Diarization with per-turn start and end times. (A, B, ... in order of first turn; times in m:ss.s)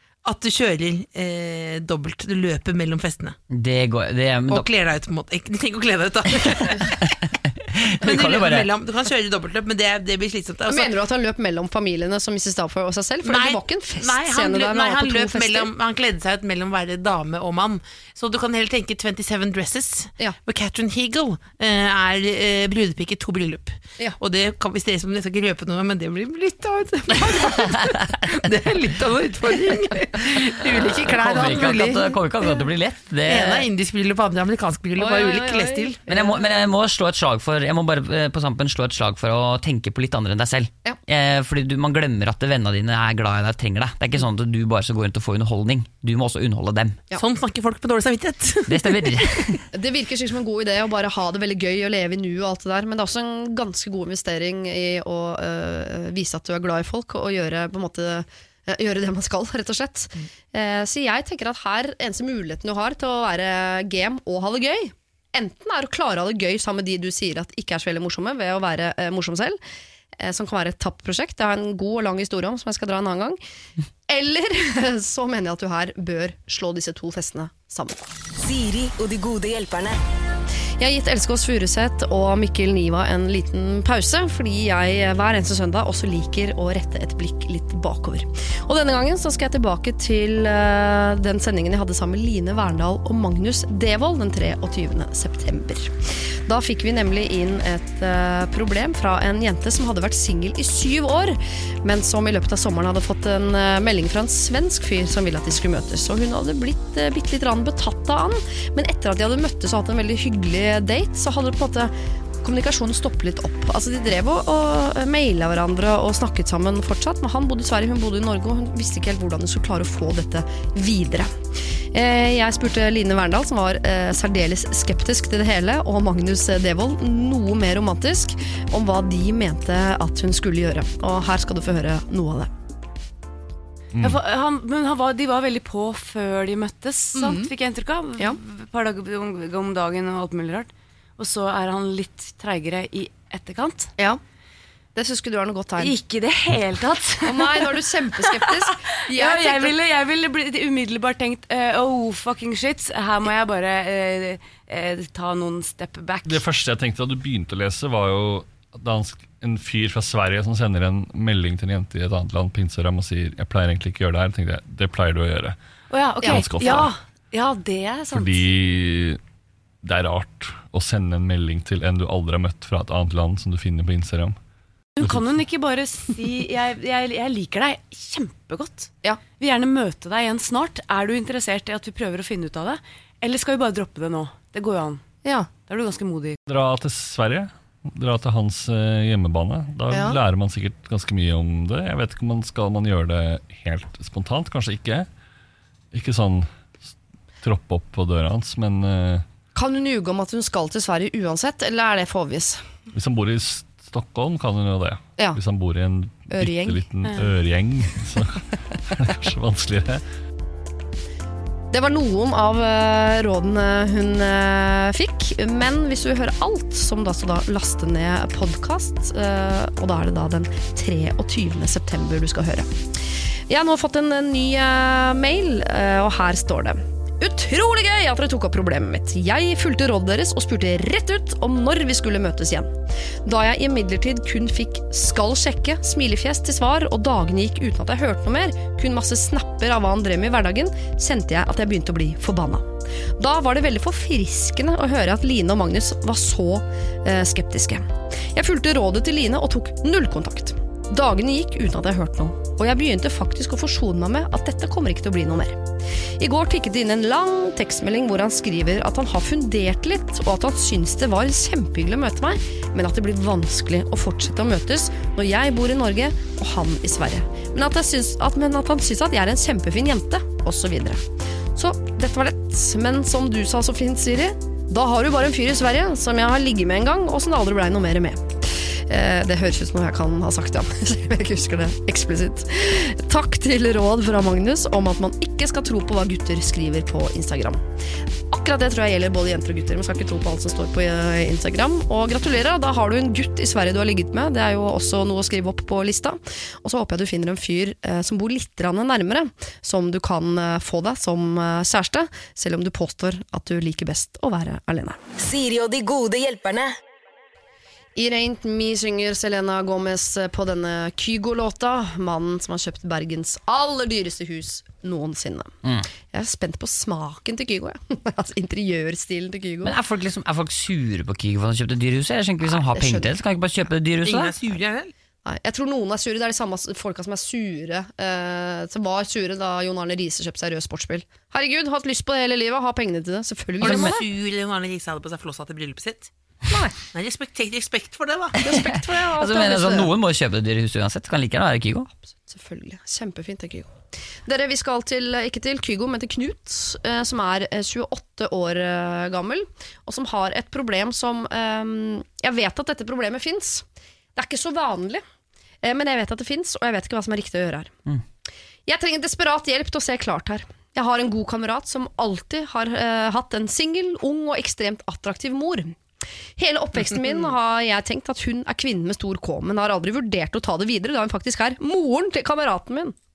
0:00.2-0:03.4 A
0:03.5-0:04.7 B
0:04.5-0:07.1 A
0:06.6-0:08.7 B
0:08.0-0:10.9 A
0:10.7-0:15.7 C
0:13.2-0:32.2 A
0:31.0-0:33.7 B
0:33.3-0:36.1 A
0:35.0-0:36.3 C
0:36.1-0:47.0 B
0:47.2-0:49.6 A
0:48.7-0:49.6 B
0:49.7-1:09.6 C
1:10.2-1:13.4 C
1:14.1-1:18.0 C
1:18.4-1:20.0 D
1:20.8-2:01.3 C
2:01.9-2:12.5 C
2:14.0-2:23.9 E
2:17.1-2:17.5 C
2:25.0-2:26.0 C
2:25.8-2:36.4 E
2:27.2-2:29.7 C
2:36.2-2:45.6 F
2:45.9-2:48.4 E
2:46.2-2:46.9 F
2:46.2-2:46.8 C
2:48.1-2:49.2 F
2:49.8-2:54.4 F
2:55.0-3:06.4 E
3:05.2-3:05.5 C
3:06.5-3:15.1 F
3:09.9-3:10.2 C
3:15.9-3:16.5 F
3:17.4-3:19.2 F
3:19.6-3:22.6 C
3:22.9-3:30.0 F
3:26.3-3:27.2 C
3:31.7-3:42.8 C
3:43.5-3:52.7 C
3:53.2-4:15.6 C
4:16.2-4:31.0 C
4:31.6-4:47.6 C
4:48.3-5:05.0 C
5:05.2-5:06.8 D
5:08.0-5:19.7 C
5:19.6-5:24.3 B
5:22.6-5:23.1 C
5:24.0-5:24.9 A
5:25.2-5:34.0 C
5:33.6-5:36.1 A
5:33.6-5:33.9 B
5:36.5-5:36.8 C
5:36.9-5:38.4 A
5:38.4-5:39.9 C
5:38.4-5:41.9 B
5:42.1-5:43.7 C
5:44.2-5:53.6 C
5:54.2-5:55.0 C
5:55.6-5:57.7 C
5:58.7-6:05.8 C
6:06.4-6:13.0 C
6:06.9-6:07.3 A